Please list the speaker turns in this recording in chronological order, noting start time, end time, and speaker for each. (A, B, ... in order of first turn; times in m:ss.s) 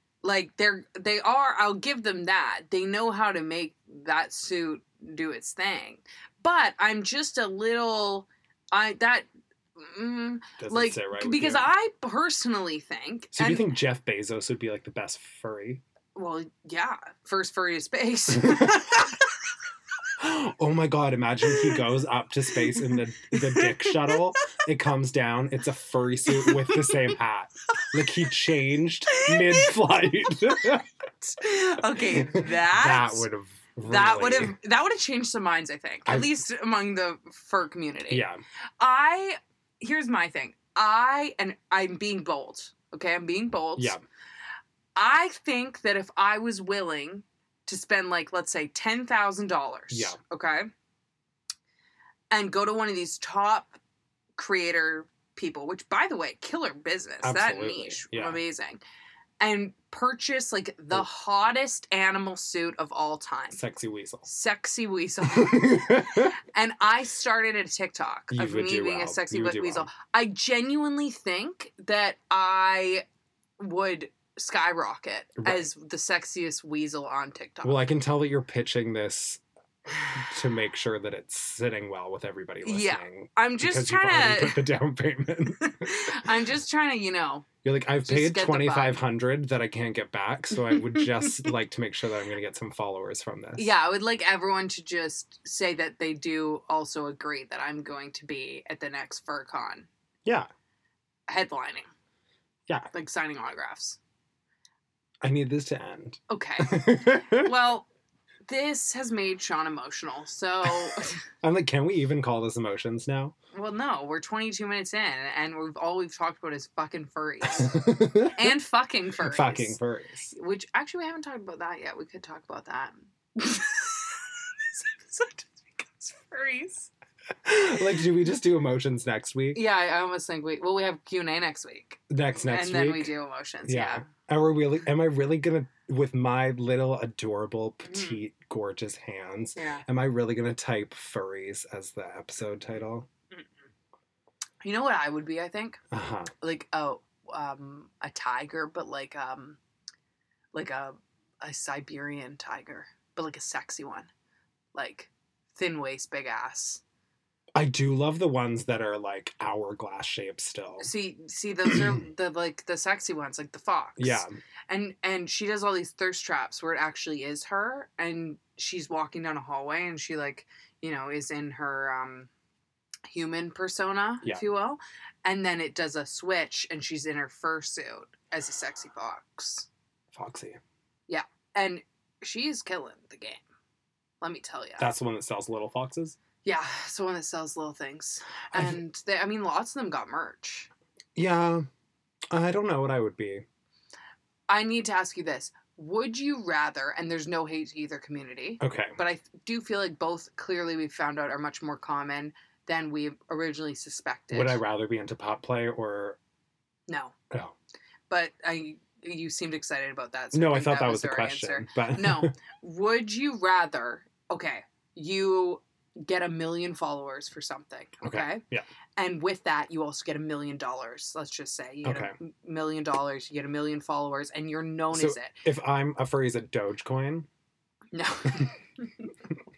0:00.2-0:13.7 A
0:10.6-0:11.7 B
0:13.3-0:15.8 B
0:16.2-0:19.3 A
0:18.4-0:19.0 B
0:20.2-0:30.8 B
0:21.5-0:21.8 A
0:22.7-0:24.4 A
0:26.3-0:27.1 A
0:29.1-0:29.8 A
0:31.2-0:33.3 A
0:32.0-0:34.6 B
0:33.8-0:38.3 A
0:38.1-0:38.4 B
0:38.8-0:44.0 A
0:43.8-0:44.0 B
0:45.0-0:50.7 A
0:49.9-0:50.2 B
0:52.3-0:53.8 A
0:54.4-0:58.8 A
0:57.2-0:58.4 B
0:59.4-1:03.6 A
1:03.5-1:04.3 B
1:04.3-1:13.0 A
1:05.3-1:06.3 B
1:08.3-1:09.9 B
1:13.6-1:17.9 A
1:15.4-1:15.7 B
1:17.6-1:19.4 B
1:20.1-1:26.3 B
1:22.6-1:24.6 A
1:25.6-1:27.5 A
1:27.6-1:33.7 B
1:28.0-1:29.0 A
1:30.6-1:31.5 A
1:33.6-1:39.9 A
1:41.3-1:41.9 A
1:42.9-1:44.0 A
1:45.2-1:47.5 B
1:46.3-1:47.9 A
1:48.5-1:51.2 A
1:50.7-1:53.3 B
1:53.5-1:59.8 A
1:57.5-1:58.5 B
1:59.2-2:00.3 B
2:00.3-2:06.9 A
2:07.4-2:09.6 B
2:09.5-2:14.0 A
2:12.1-2:13.1 B
2:13.7-2:23.1 B
2:17.8-2:18.2 A
2:19.6-2:19.8 A
2:24.6-2:25.8 A
2:25.9-2:26.3 B
2:26.4-2:29.6 A
2:30.5-2:34.1 A
2:34.8-2:36.8 A
2:37.6-2:40.9 B
2:40.8-2:52.3 A
2:41.6-2:42.0 B
2:44.0-2:44.4 B
2:53.1-2:59.7 A
3:00.1-3:00.6 B
3:01.1-3:03.4 A
3:04.2-3:04.9 A
3:04.8-3:06.2 B
3:06.4-3:10.7 A
3:11.2-3:11.7 B
3:12.3-3:13.4 B
3:14.5-3:24.6 A
3:18.6-3:19.0 B
3:24.3-3:26.2 B
3:26.9-3:27.2 A
3:28.1-3:38.4 A
3:30.3-3:32.3 B
3:38.0-3:38.7 B
3:39.0-3:45.4 A
3:41.8-3:42.2 B
3:44.9-3:47.3 B
3:47.9-3:49.1 A